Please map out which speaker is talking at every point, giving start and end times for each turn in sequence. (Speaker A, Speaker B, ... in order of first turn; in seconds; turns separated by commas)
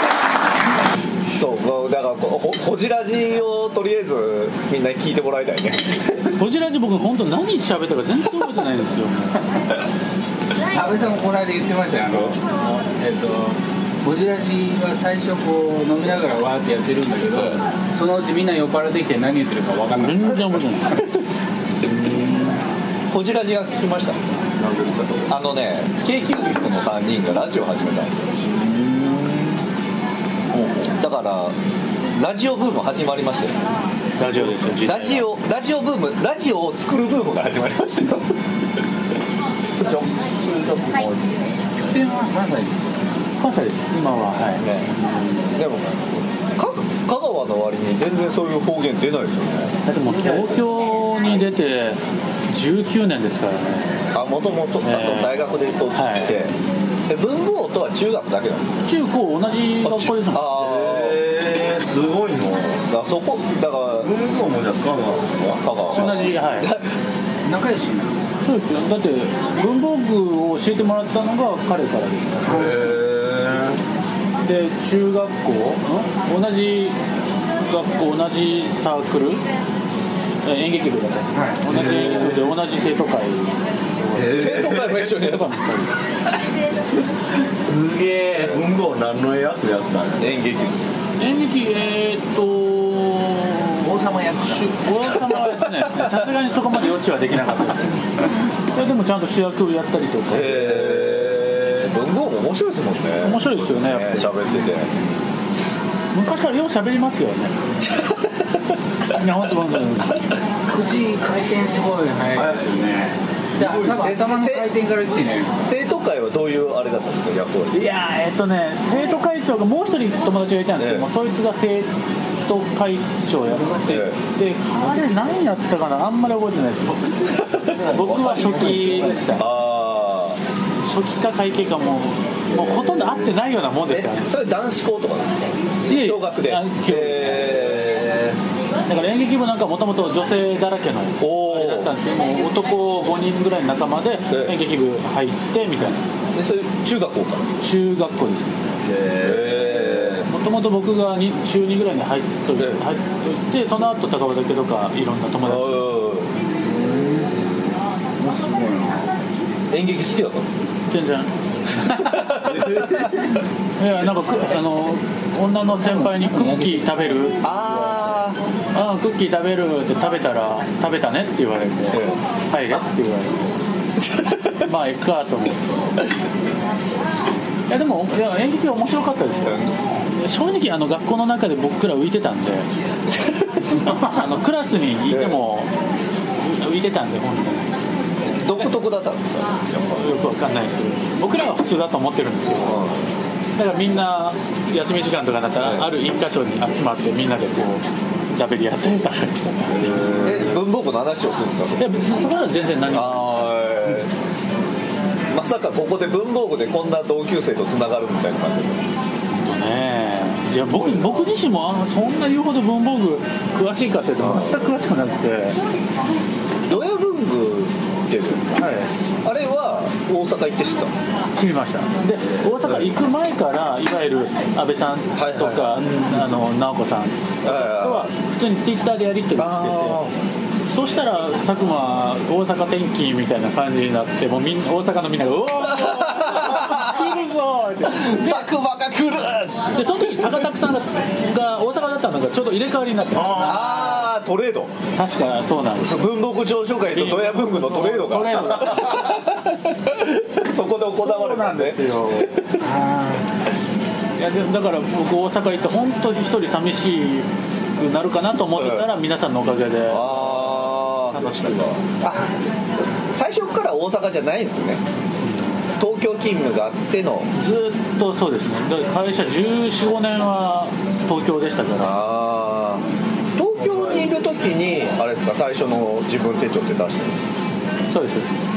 Speaker A: 1.3-6.3, Speaker B: 6.3-9.4, Speaker C: 10.6-20.6, Speaker B: 20.0-21.1, Speaker A: 21.9-22.4, Speaker D: 22.1-22.5, Speaker A: 23.1-24.2, Speaker D: 24.6-25.3, Speaker A: 25.3-28.4, Speaker D: 28.4-29.6, Speaker A: 30.5-31.6, Speaker A: 32.1-33.6, Speaker B: 34.2-35.3, Speaker A: 34.2-38.3, Speaker A: 39.8-41.2, Speaker C: 41.8-42.9, Speaker B: 43.4-45.4, Speaker A: 44.5-49.8, Speaker B: 49.8-54.0, Speaker A: 54.1-56.5, Speaker B: 54.8-56.4, Speaker A: 57.1-58.9, Speaker B: 58.8-60.4, Speaker A: 59.8-61.3, Speaker D: 60.5-62.9, Speaker A: 62.9-64.1, Speaker D: 64.0-65.7, Speaker A: 65.6-66.9, Speaker B: 65.9-66.7, Speaker C: 67.4-68.2, Speaker B: 68.4-72.8, Speaker D: 72.5-73.8, Speaker B: 74.4-77.0, Speaker B: 77.5-79.4, Speaker B: 80.4-84.4, Speaker D: 81.7-82.6, Speaker D: 84.1-85.0, Speaker A: 84.3-85.5, Speaker B: 85.0-85.9, Speaker D: 87.4-90.3, Speaker A: 90.2-90.9, Speaker B: 91.2-98.0, Speaker C: 93.8-94.8, Speaker A: 95.3-96.0, Speaker B: 98.7-100.9, Speaker A: 100.3-104.9, Speaker D: 101.0-101.6, Speaker B: 103.2-104.3, Speaker B: 106.1-107.5, Speaker B: 109.1-110.2, Speaker C: 110.7-115.6, Speaker D: 112.4-112.8, Speaker A: 113.7-114.7, Speaker A: 115.6-117.8, Speaker B: 117.7-121.9, Speaker A: 120.8-121.1, Speaker B: 122.4-129.5, Speaker A: 123.8-124.2, Speaker D: 127.9-129.2, Speaker A: 129.3-130.4, Speaker B: 130.8-134.3, Speaker D: 132.9-133.2, Speaker A: 133.8-138.4, Speaker B: 135.8-137.8, Speaker B: 138.8-146.1, Speaker A: 141.2-141.9, Speaker A: 144.3-144.6, Speaker A: 146.3-147.7, Speaker B: 147.6-148.6, Speaker D: 148.8-150.2, Speaker A: 149.2-150.3, Speaker B: 150.3-155.9, Speaker A: 152.6-152.8, Speaker A: 155.4-156.3, Speaker C: 156.6-157.4, Speaker C: 158.2-159.0, Speaker D: 158.3-158.8, Speaker A: 159.7-160.5, Speaker B: 160.9-162.9, Speaker A: 161.8-162.7, Speaker D: 162.5-163.0, Speaker B: 163.8-167.4, Speaker C: 165.9-167.1, Speaker A: 167.4-168.4, Speaker B: 168.7-173.4, Speaker A: 171.9-172.2, Speaker B: 174.5-175.7, Speaker B: 177.7-182.7, Speaker A: 179.4-179.8, Speaker B: 183.8-185.7, Speaker A: 185.1-185.4, Speaker B: 186.4-187.7, Speaker A: 188.2-190.2, Speaker B: 189.9-192.9, Speaker A: 192.6-193.1, Speaker B: 193.6-200.5, Speaker A: 195.6-195.9, Speaker A: 200.1-201.9, Speaker B: 201.8-203.5, Speaker A: 202.9-204.1, Speaker A: 205.3-208.8, Speaker B: 209.4-215.6, Speaker A: 214.2-214.7, Speaker A: 216.7-218.7, Speaker B: 218.5-218.9, Speaker A: 219.2-220.9, Speaker B: 221.3-230.1, Speaker A: 222.3-223.0, Speaker A: 225.1-226.2, Speaker A: 227.4-228.1, Speaker A: 229.3-230.2, Speaker B: 230.7-238.5, Speaker A: 235.7-237.1, Speaker A: 237.8-240.5, Speaker B: 239.7-244.0, Speaker A: 243.3-244.7, Speaker B: 244.9-246.1, Speaker A: 245.8-252.6, Speaker B: 246.8-249.3, Speaker B: 251.0-252.3, Speaker C: 252.6-253.2, Speaker B: 254.2-261.8, Speaker A: 258.5-258.9, Speaker A: 259.9-264.8, Speaker B: 265.2-265.6, Speaker A: 265.8-267.3, Speaker B: 267.3-271.9, Speaker A: 271.8-277.2, Speaker B: 277.9-278.3